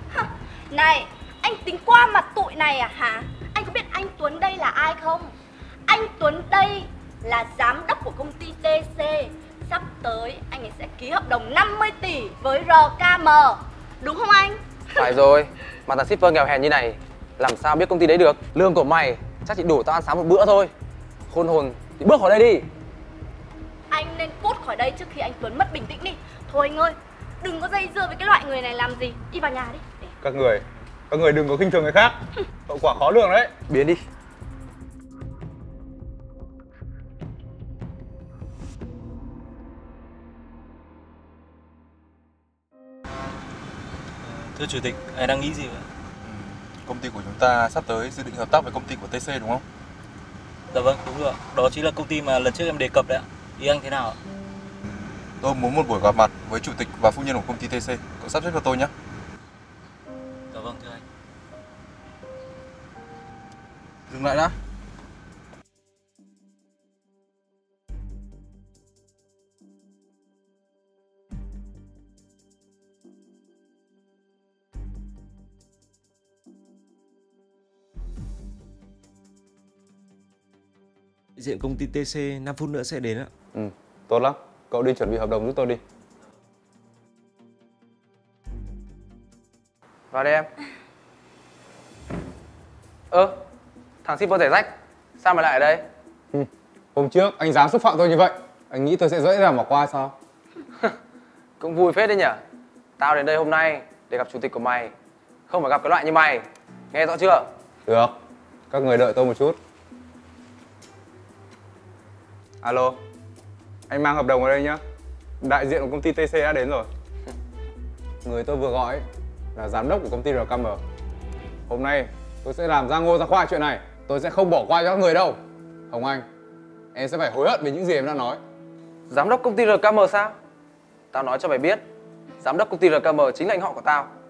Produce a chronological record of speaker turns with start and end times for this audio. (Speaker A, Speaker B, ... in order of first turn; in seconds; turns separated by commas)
Speaker A: 0.1-5.3, Speaker A: 5.9-14.6, Speaker B: 15.0-20.7, Speaker B: 21.3-22.7, Speaker A: 23.9-30.1, Speaker C: 30.2-32.1, Speaker C: 32.7-33.5, Speaker B: 33.7-34.0, Speaker D: 44.3-45.9, Speaker E: 44.7-45.5, Speaker E: 46.2-49.6, Speaker D: 50.7-54.2, Speaker E: 55.4-58.9, Speaker D: 60.5-61.0, Speaker B: 64.1-64.5, Speaker F: 81.4-83.3, Speaker C: 83.5-85.8, Speaker B: 90.1-90.5, Speaker B: 93.1-93.4, Speaker B: 94.0-95.8, Speaker C: 96.3-100.2, Speaker B: 101.6-102.4, Speaker B: 103.0-104.9, Speaker B: 105.5-107.5, Speaker C: 107.9-108.1, Speaker C: 108.7-109.6, Speaker C: 112.6-113.0, Speaker C: 113.9-114.8, Speaker C: 115.4-116.9, Speaker C: 118.2-120.8, Speaker C: 121.7-125.4, Speaker C: 125.9-126.2, Speaker C: 127.0-128.4, Speaker B: 129.1-130.4, Speaker B: 131.1-131.8, Speaker B: 132.4-134.1